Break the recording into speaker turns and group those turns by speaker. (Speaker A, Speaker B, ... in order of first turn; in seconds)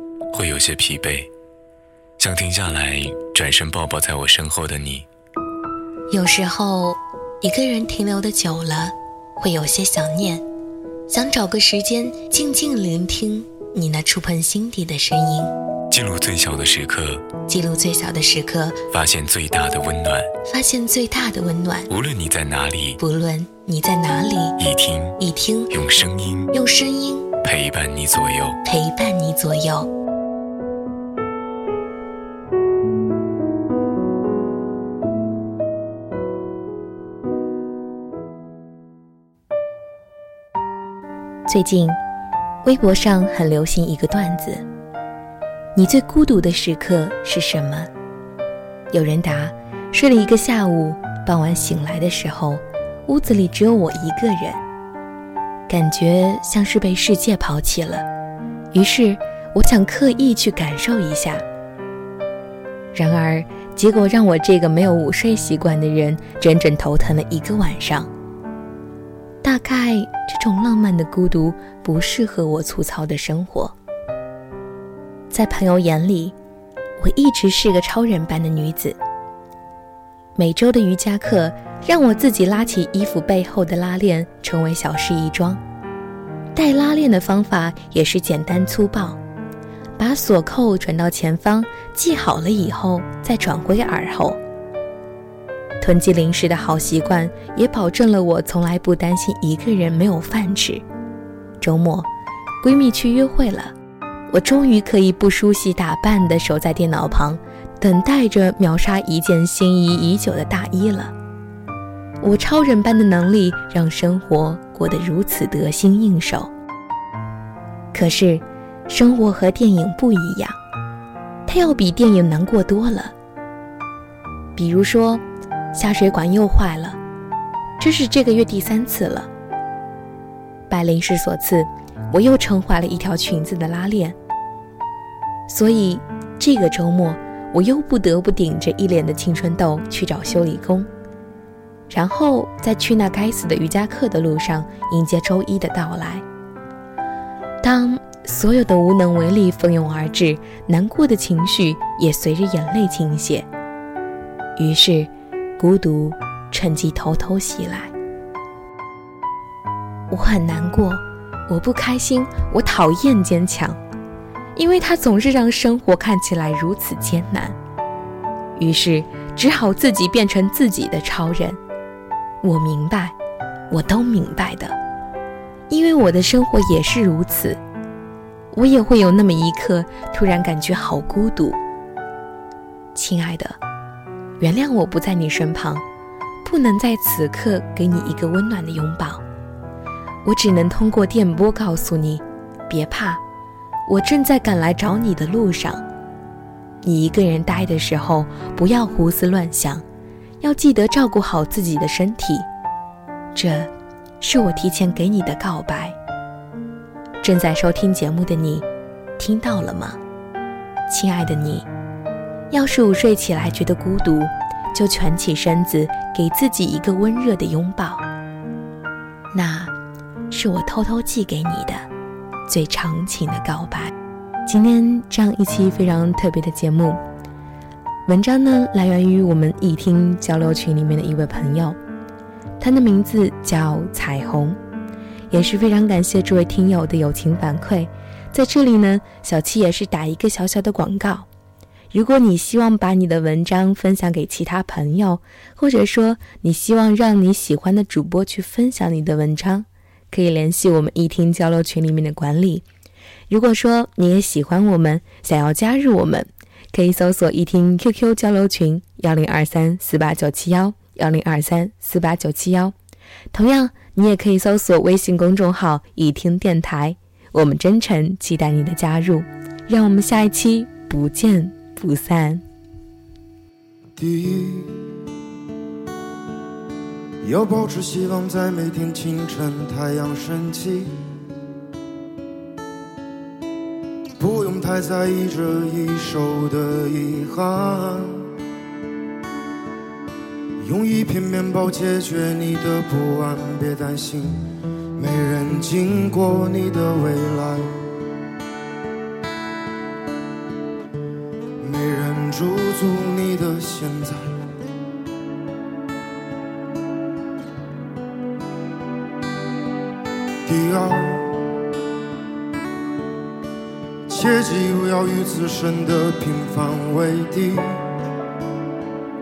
Speaker A: 0.3-1.3, 2.2-5.0, 15.9-17.2, 18.9-20.3, 21.9-23.0, 24.6-25.2, 25.7-26.5, 27.4-28.6
Speaker B: 6.1-10.4, 11.1-15.6, 17.4-18.8, 20.4-21.9, 23.0-24.6, 25.2-25.7, 26.5-27.3, 28.6-29.9, 41.5-42.0, 42.6-44.6, 45.7-47.9, 48.9-54.6, 55.7-58.0, 58.7-61.4, 62.9-68.1, 69.4-73.7, 75.3-76.3, 77.0-79.0, 80.3-85.6, 86.5-89.2, 90.0-94.4, 95.8-100.8, 101.6-102.1, 102.6-103.7, 104.3-111.1, 112.2-116.5, 117.9-120.6, 121.5-123.1, 124.5-127.0, 127.8-129.3, 130.7-134.2, 135.5-140.9, 141.9-146.2, 147.6-153.5, 154.6-157.9, 160.1-163.8, 164.5-167.6, 168.6-171.6, 172.4-173.2, 173.7-174.8, 175.7-177.6, 178.5-181.6, 182.9-183.6, 184.4-185.8, 186.4-189.2, 190.2-193.2, 193.9-195.8, 196.8-199.8, 200.4-202.5, 203.3-206.0, 207.2-208.7, 209.2-210.0, 210.9-211.7, 212.5-218.0, 219.3-219.7, 220.3-221.8, 222.5-223.9, 224.4-227.0, 228.1-231.8, 232.6-234.6, 235.3-241.3, 241.9-252.6, 253.3-262.8, 263.3-272.4
Speaker C: 273.9-274.8, 277.2-281.0, 284.2-288.3, 290.6-297.8, 301.6-304.4, 310.4-311.4, 314.1-317.9